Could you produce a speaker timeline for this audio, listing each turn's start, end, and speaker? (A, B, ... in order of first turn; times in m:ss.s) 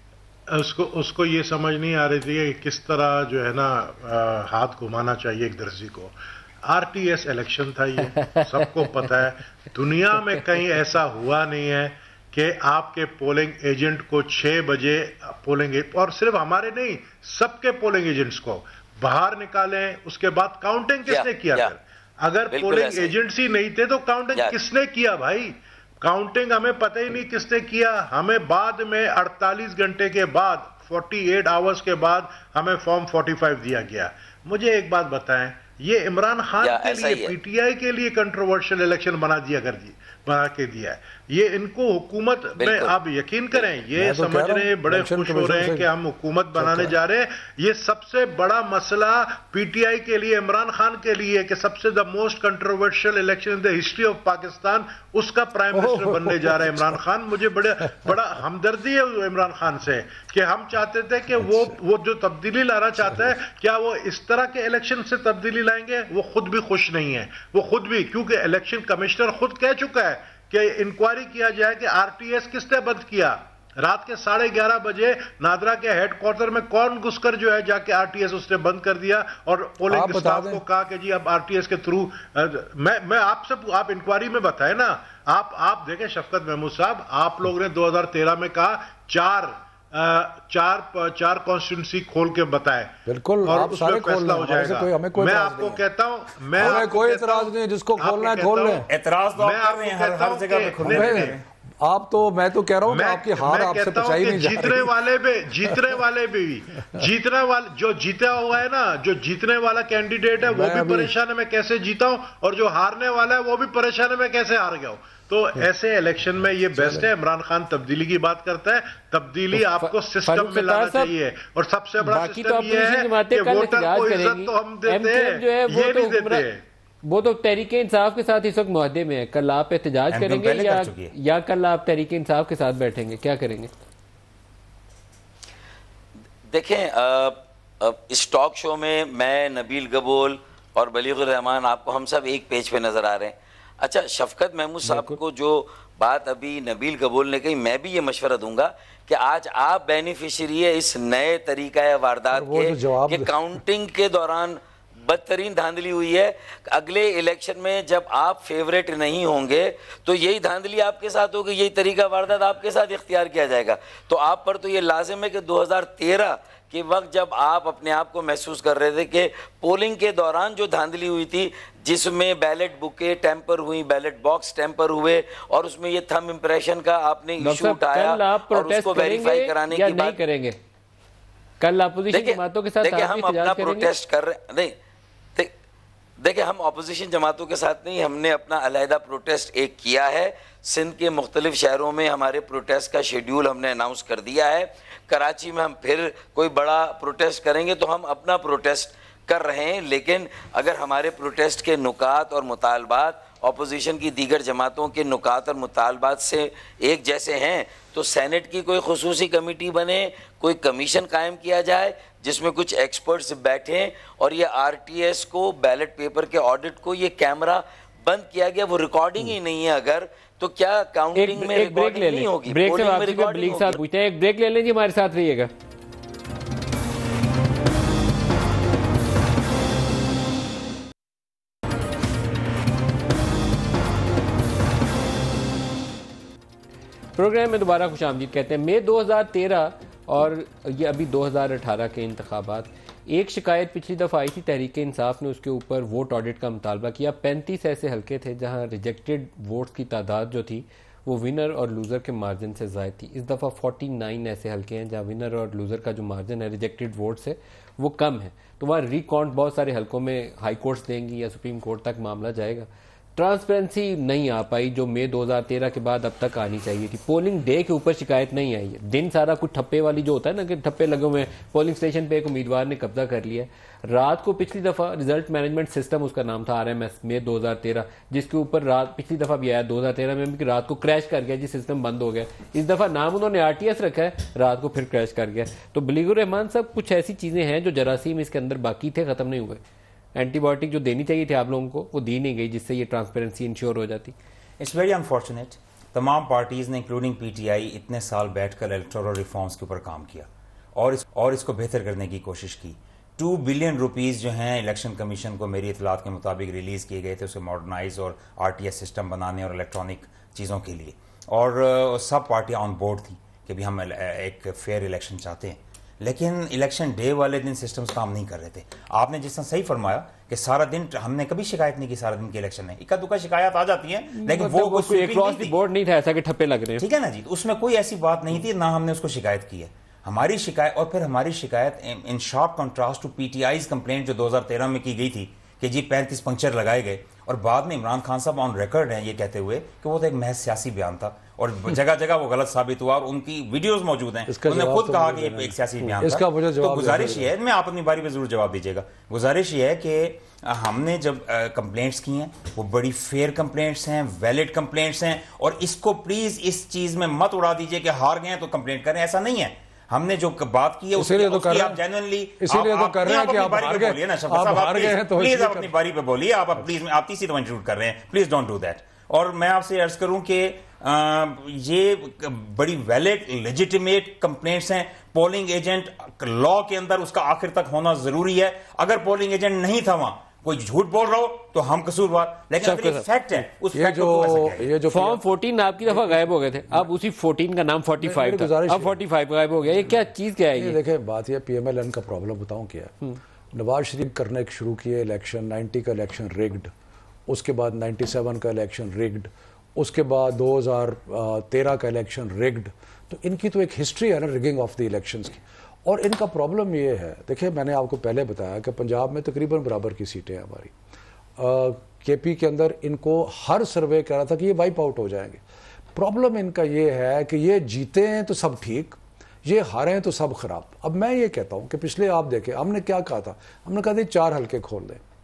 0:00.5-1:41.4 A
0:08.2-0:08.6 B
0:21.0-0:21.7 C
0:22.5-0:23.1 C
0:36.6-0:37.3 C
0:42.6-0:42.9 C
0:44.0-0:45.9 D
0:46.6-0:46.9 D
0:55.7-0:57.0 D
1:19.9-1:20.6 D
1:33.1-1:35.8 D
1:36.5-1:38.8 D
1:38.9-1:41.4 E
1:40.8-1:45.0 D
1:42.9-2:06.6 A
1:50.4-1:51.1 D
1:56.7-1:57.1 D
1:59.5-2:01.1 B
2:02.0-2:06.4 B
2:07.0-2:13.7 B
2:10.1-2:11.1 E
2:16.5-3:00.2 C
2:24.8-2:25.2 B
2:32.3-2:33.3 D
2:57.4-3:00.6 B
3:01.6-3:03.9 B
3:02.1-3:04.8 C
3:06.2-3:43.8 C
3:41.2-3:45.5 B
3:57.2-4:49.6 B
4:50.1-4:54.1 B
4:54.6-5:25.5 E
5:24.1-5:26.8 B
5:26.8-6:24.7 E
5:44.3-5:47.3 D
6:00.9-6:01.8 D
6:02.4-6:05.7 D
6:22.6-6:23.0 B
6:23.7-6:25.2 D
6:24.9-6:30.8 B
6:25.9-6:26.3 D
6:28.0-6:29.0 D
6:29.7-6:32.9 D
6:33.5-6:36.7 D
6:37.3-6:50.7 D
6:51.4-6:55.4 D
6:55.9-7:05.0 D